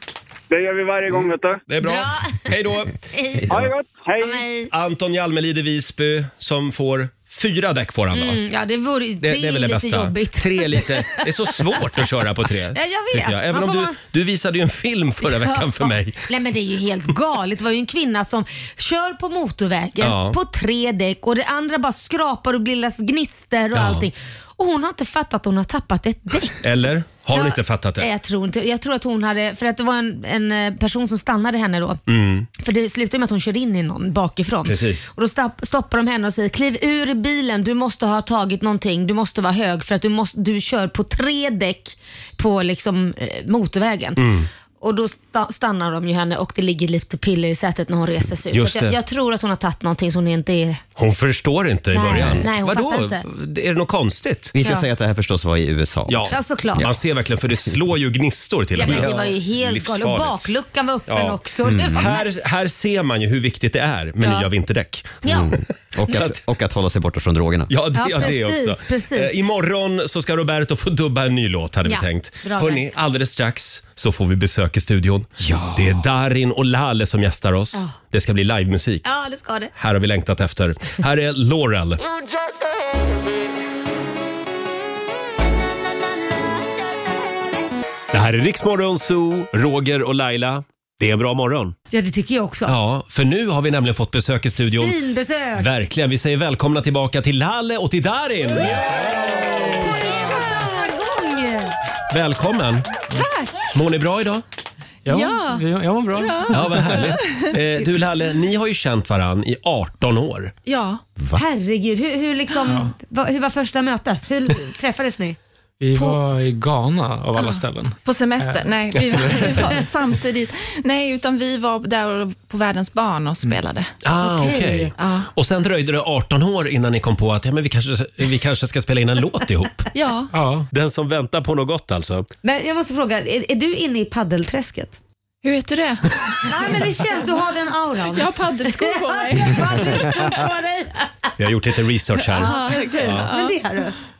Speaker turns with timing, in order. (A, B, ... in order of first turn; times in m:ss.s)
0:00.5-0:01.6 A
0:01.7-0:02.9 B
0:01.8-0:02.4 C
0:03.1-0:03.6 C
0:03.5-0:04.4 A
0:04.2-0:04.7 C
0:04.7-0:08.4 B
0:08.1-0:11.3 C
0:09.2-0:16.2 B
0:12.7-0:14.0 C
0:15.2-0:26.7 C
0:20.0-0:20.4 B
0:23.7-0:24.1 B
0:26.6-0:28.1 B
0:27.3-0:32.0 C
0:32.1-0:32.5 B
0:32.6-0:44.2 C
0:34.7-0:35.1 B
0:44.2-0:44.5 B
0:44.8-0:50.8 C
0:48.5-0:48.9 B
0:51.0-0:54.6 B
0:51.9-0:53.2 C
0:52.1-0:52.4 D
0:54.5-0:56.9 D
0:54.6-0:54.9 C
0:56.1-1:00.5 B
0:56.3-0:56.9 C
0:58.8-1:02.2 C
0:58.8-0:59.2 D
1:01.1-1:05.2 B
1:01.7-1:02.2 D
1:04.2-1:04.5 C
1:05.2-1:05.5 C
1:05.2-1:07.7 D
1:06.1-1:06.4 B
1:07.7-1:19.1 B
1:08.0-1:09.4 C
1:11.9-1:12.9 C
1:15.4-1:16.0 D
1:19.0-1:19.7 C
1:19.8-1:22.0 B
1:28.1-1:31.8 B
1:31.9-1:32.8 C
1:32.7-1:35.0 B
1:34.8-1:35.7 C
1:35.6-1:39.1 B
1:38.9-1:41.8 C
1:42.1-1:42.9 B
1:43.1-1:43.6 E
1:43.6-1:44.4 B
1:45.1-1:47.1 F
1:45.1-1:47.5 E
1:46.5-1:50.5 B
1:50.7-1:51.0 E
1:51.4-1:55.4 C
1:52.7-1:52.9 F
1:55.8-1:59.8 F
1:57.4-2:03.9 E
2:04.0-2:09.9 B
2:04.2-2:04.9 C
2:05.0-2:05.3 E
2:09.9-2:10.3 E
2:10.3-2:10.7 F
2:10.7-2:12.3 B
2:12.4-2:15.0 C
2:15.4-2:17.2 E
2:16.4-2:21.3 C
2:18.1-2:20.4 E
2:21.4-2:23.3 B
2:22.3-2:24.0 C
2:22.4-2:23.5 E